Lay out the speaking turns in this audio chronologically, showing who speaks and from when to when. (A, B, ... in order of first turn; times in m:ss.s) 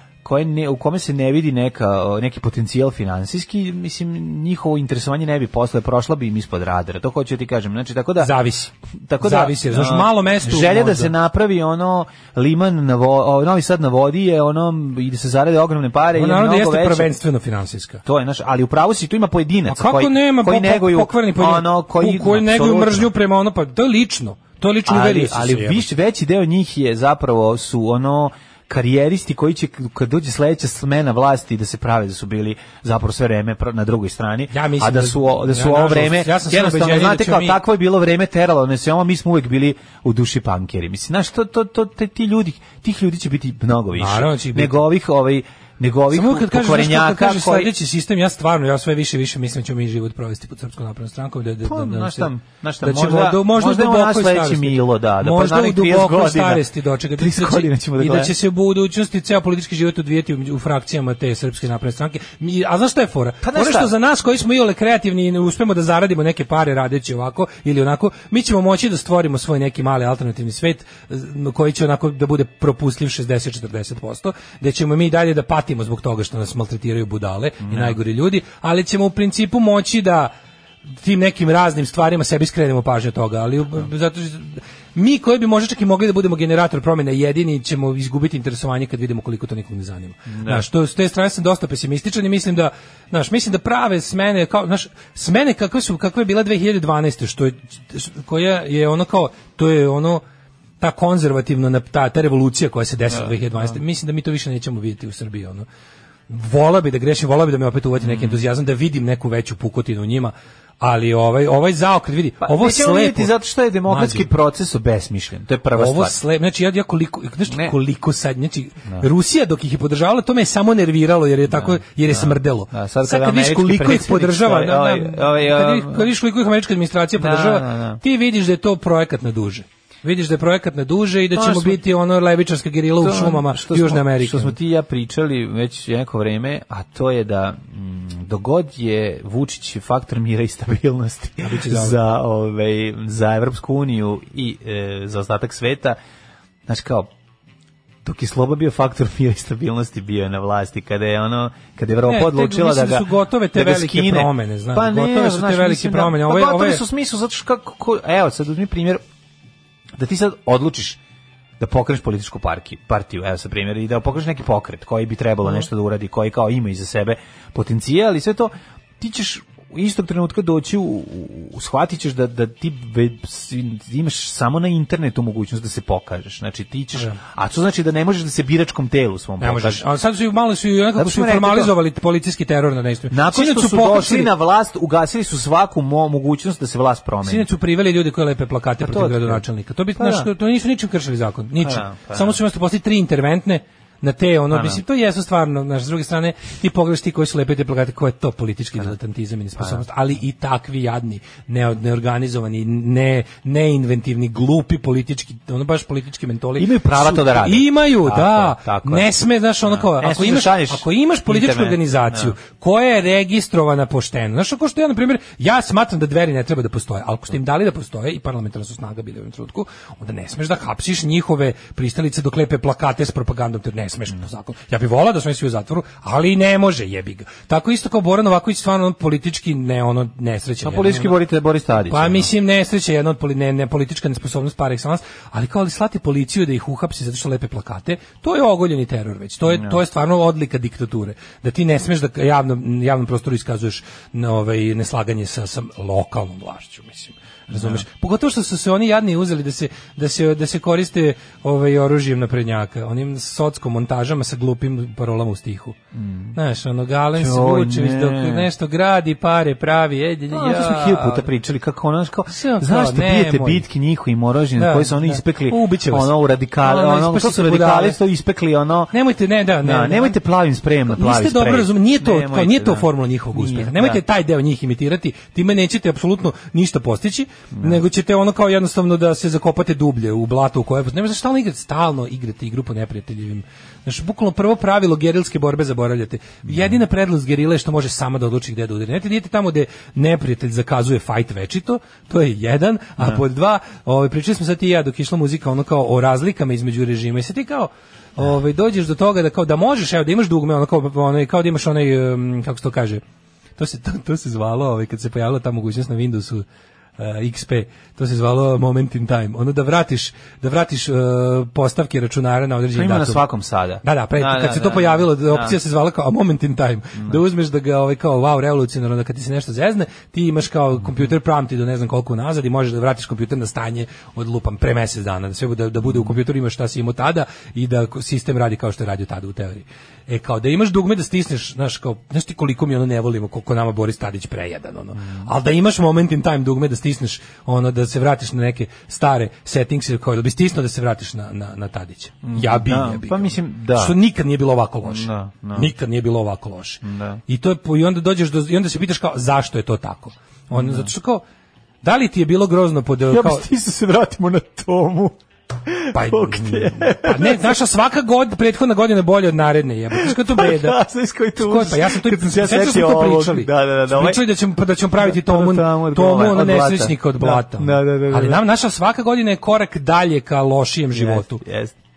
0:00.2-0:08.4 A
0:08.2-0:11.1 B
0:09.1-0:17.1 A
0:16.2-0:18.0 B
0:18.0-0:23.1 A
0:19.7-0:25.9 B
0:24.9-0:47.7 A
0:34.5-0:37.6 B
0:44.0-0:44.8 B
0:46.1-1:20.3 B
0:51.6-0:58.4 A
1:03.4-1:03.9 A
1:17.6-1:18.0 A
1:21.0-1:40.2 B
1:30.3-1:30.6 A
1:40.8-1:45.7 B
1:43.1-1:43.7 A
1:46.3-1:53.4 B
1:48.0-1:48.4 A
1:52.4-1:56.2 A
1:53.9-1:54.3 B
1:55.8-2:14.6 B
1:57.5-1:57.7 A
2:01.5-2:06.1 A
2:07.2-2:08.0 A
2:11.3-2:11.8 A
2:13.0-2:26.0 A
2:21.4-2:22.0 B
2:26.7-2:27.1 A
2:28.0-2:39.0 A
2:32.0-2:36.8 B
2:40.0-2:41.0 A
2:41.6-2:59.9 A
2:59.4-3:04.3 B
3:01.0-3:01.7 A
3:03.1-3:07.5 A
3:07.2-3:51.2 B
3:08.8-3:09.4 A
3:10.0-3:10.3 A
3:11.6-3:12.4 A
3:14.5-3:14.8 A
3:19.6-3:19.8 A
3:26.6-3:29.1 A
3:29.6-3:32.4 A
3:50.6-3:52.3 A
3:51.9-4:15.8 B
3:59.5-3:59.8 A
4:07.5-4:07.8 A
4:15.9-4:16.4 A
4:16.3-4:21.3 B
4:17.2-4:18.5 A
4:20.3-4:28.9 A
4:22.3-4:23.6 B
4:24.6-4:28.0 B
4:28.9-4:30.2 B
4:29.6-4:34.0 A
4:30.9-5:03.0 B
4:37.5-4:37.8 A
4:46.5-4:46.8 A
5:03.6-5:06.4 B
5:07.0-5:13.2 B
5:12.7-5:15.6 A
5:13.8-5:51.2 B
5:25.8-5:26.2 A
5:35.0-5:35.3 A
5:42.2-5:44.0 A
5:44.8-5:45.7 A
5:46.8-5:47.2 A
5:50.5-5:50.9 A
5:51.8-5:53.5 B
5:53.1-5:57.6 A
5:55.9-6:00.8 B
5:59.9-6:04.2 A
6:01.4-6:11.4 B
6:05.0-6:08.4 A
6:10.9-6:11.7 A